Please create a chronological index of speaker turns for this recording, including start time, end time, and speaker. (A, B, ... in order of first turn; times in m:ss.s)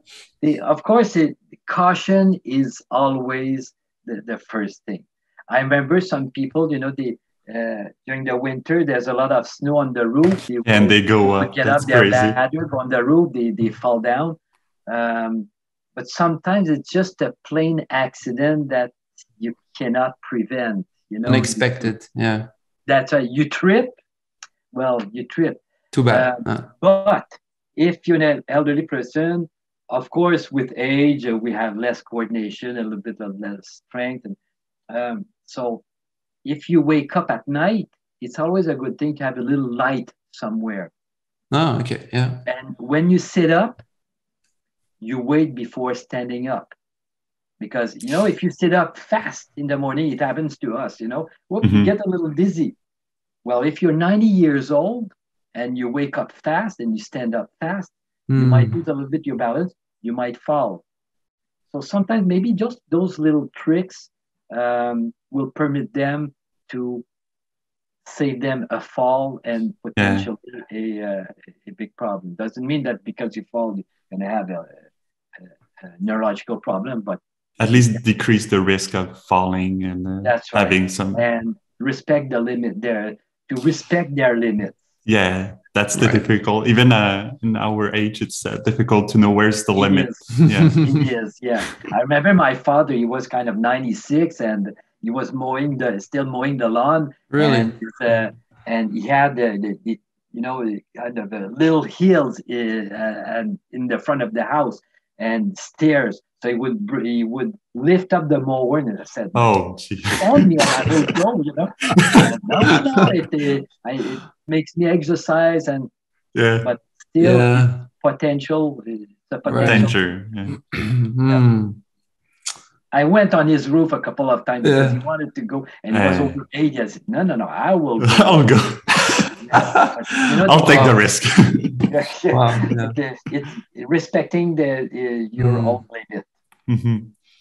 0:00.4-0:21.9 A
0:10.6-0:12.4 B
0:21.2-0:22.5 C
0:22.9-0:24.0 A
0:24.7-0:34.4 A
0:25.9-0:26.7 C
0:34.9-0:35.8 A
0:36.4-0:40.9 A
0:41.5-0:42.4 C
0:42.4-0:43.8 A
0:45.0-0:46.7 A
0:47.6-0:52.8 A
0:51.6-0:51.9 B
0:53.4-1:00.8 A
0:58.3-0:58.8 C
1:01.7-1:07.0 A
1:08.0-1:14.8 A
1:10.0-1:10.3 B
1:15.8-1:17.9 A
1:17.6-1:21.2 B
1:20.2-1:24.8 A
1:25.0-1:31.0 B
1:25.9-1:26.2 C
1:29.8-1:49.5 A
1:37.3-1:37.8 C
1:49.3-1:51.1 B
1:50.2-1:55.9 A
1:51.9-1:52.3 B
1:56.3-1:56.7 B
1:56.6-2:00.0 A
1:57.2-1:57.8 C
1:59.4-1:59.9 C
1:59.6-2:00.6 B
2:00.7-2:01.8 C
2:02.9-2:08.7 A
2:04.6-2:05.0 C
2:05.9-2:06.4 B
2:08.0-2:09.5 B
2:09.4-2:11.1 A
2:09.6-2:10.9 C
2:10.2-2:11.9 B
2:11.8-2:16.3 A
2:12.3-2:13.0 C
2:15.4-2:15.7 C
2:16.7-2:17.2 B